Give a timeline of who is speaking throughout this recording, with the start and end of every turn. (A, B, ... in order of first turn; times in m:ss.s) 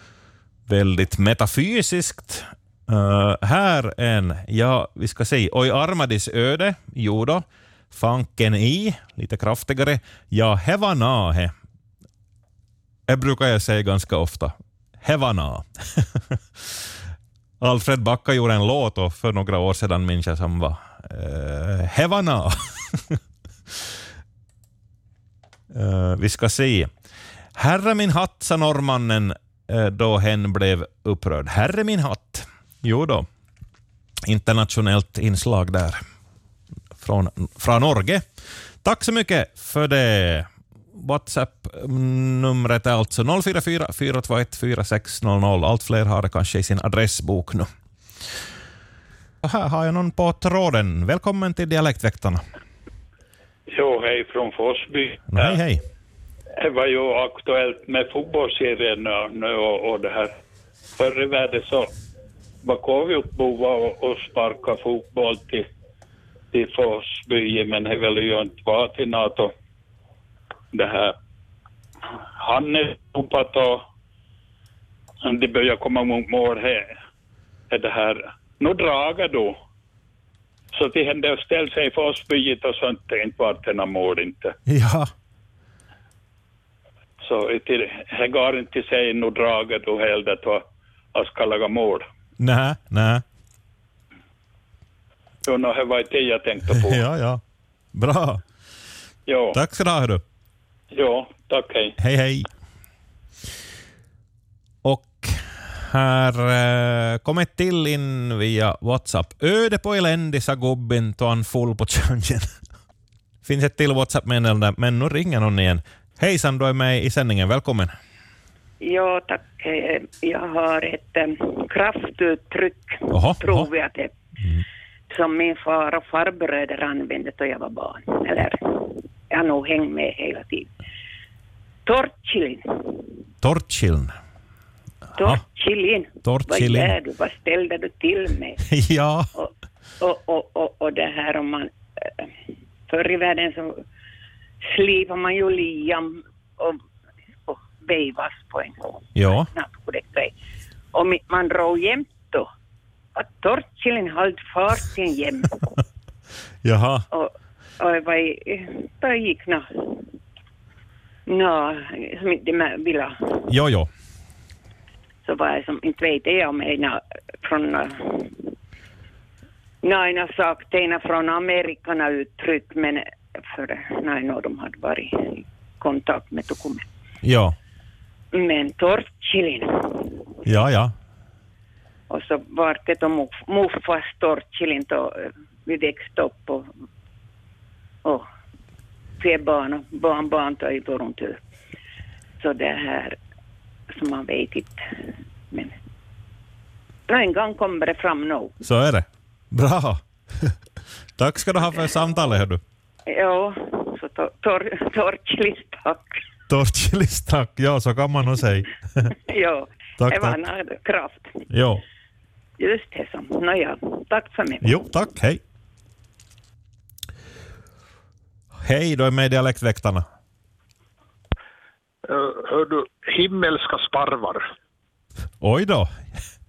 0:00.7-0:11.5 A
0:13.1-0:16.4 A
0:17.6-0:23.2 A
0:25.7-0:26.9 A
0:27.6-0:33.3 A
0:34.3-0:36.0 A
0:37.0-0:38.2 A
0:38.8-0:40.5 A
0:41.0-0:47.7 A
0:49.4-0:52.4 A
0:53.7-0:55.6 B
0:55.3-0:55.8 A
0:56.6-1:00.3 B
1:01.0-1:01.9 B
1:02.6-1:05.7 B
1:06.5-1:09.5 B
1:10.7-1:11.2 B
1:12.4-1:13.8 B
1:15.2-1:16.9 B
1:17.7-1:19.6 B
1:20.7-1:24.5 B
1:24.7-1:25.1 A
1:27.2-1:32.0 B
1:32.4-1:33.2 A
1:35.4-1:37.0 B
1:36.7-1:37.4 A
1:38.0-1:38.4 A
1:39.3-1:39.6 B
1:39.5-1:40.2 A
1:40.9-1:41.9 B
1:42.0-1:42.5 A
1:44.8-1:52.5 A
1:53.4-1:57.9 A
1:58.8-2:04.1 C
2:03.1-2:03.7 A
2:05.1-2:10.7 C
2:11.9-2:13.2 C
2:13.4-2:14.1 A
2:15.2-2:18.7 C
2:16.2-2:17.0 A
2:18.7-2:19.3 A
2:19.3-2:22.3 C
2:22.9-2:23.8 C
2:24.6-2:26.8 C
2:27.5-2:30.3 C
2:29.2-2:29.5 A
2:30.9-2:32.5 C
2:33.2-2:35.7 C
2:36.6-2:37.0 A
2:37.1-2:40.1 C
2:41.3-2:43.2 C
2:43.5-2:43.9 A
2:45.2-2:48.5 C
2:49.8-2:56.8 C
2:57.2-2:57.6 A
2:58.3-3:00.3 C
3:00.4-3:00.9 A
3:02.1-3:06.7 C
3:09.2-3:11.4 C
3:12.4-3:13.2 C
3:13.9-3:14.8 C
3:15.5-3:15.8 C
3:17.1-3:18.5 C
3:18.6-3:20.5 A
3:21.2-3:22.6 A
3:23.1-3:26.2 C
3:26.5-3:28.7 A
3:29.3-3:31.3 C
3:30.0-3:30.4 A
3:31.5-3:31.8 A
3:32.6-3:34.8 C
3:34.6-3:35.4 A
3:38.6-3:40.0 A
3:42.1-3:44.5 D
3:45.4-3:45.9 A